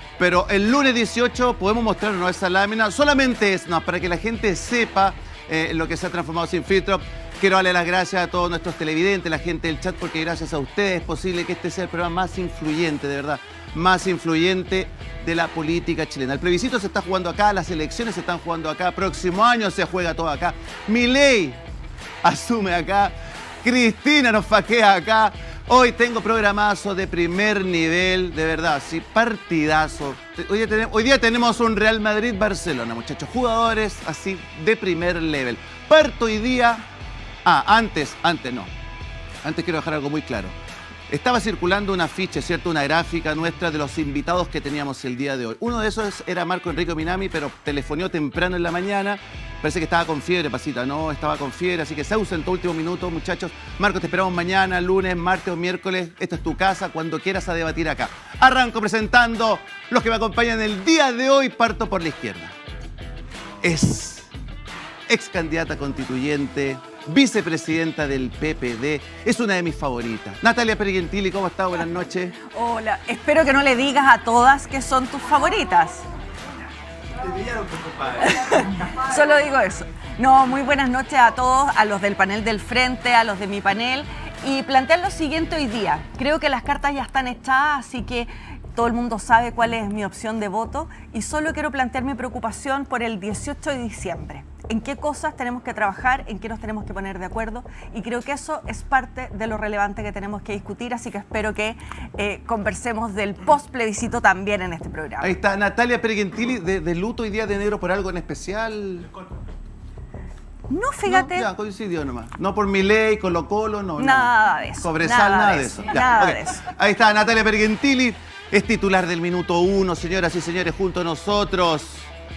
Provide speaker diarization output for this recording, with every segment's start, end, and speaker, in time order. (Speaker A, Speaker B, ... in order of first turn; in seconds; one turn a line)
Speaker A: 0.2-21.6
Speaker A: 22.2-36.8
Speaker A: 37.4-38.7
Speaker A: 39.4-40.6
Speaker A: 41.1-62.5
Speaker A: 63.6-64.3
Speaker A: 65.1-72.3
Speaker B: 72.5-76.0
Speaker A: 77.7-78.0
Speaker B: 78.3-105.3
Speaker A: 105.2-109.1
Speaker B: 110.7-111.5
Speaker A: 111.0-122.1
Speaker B: 114.0-116.6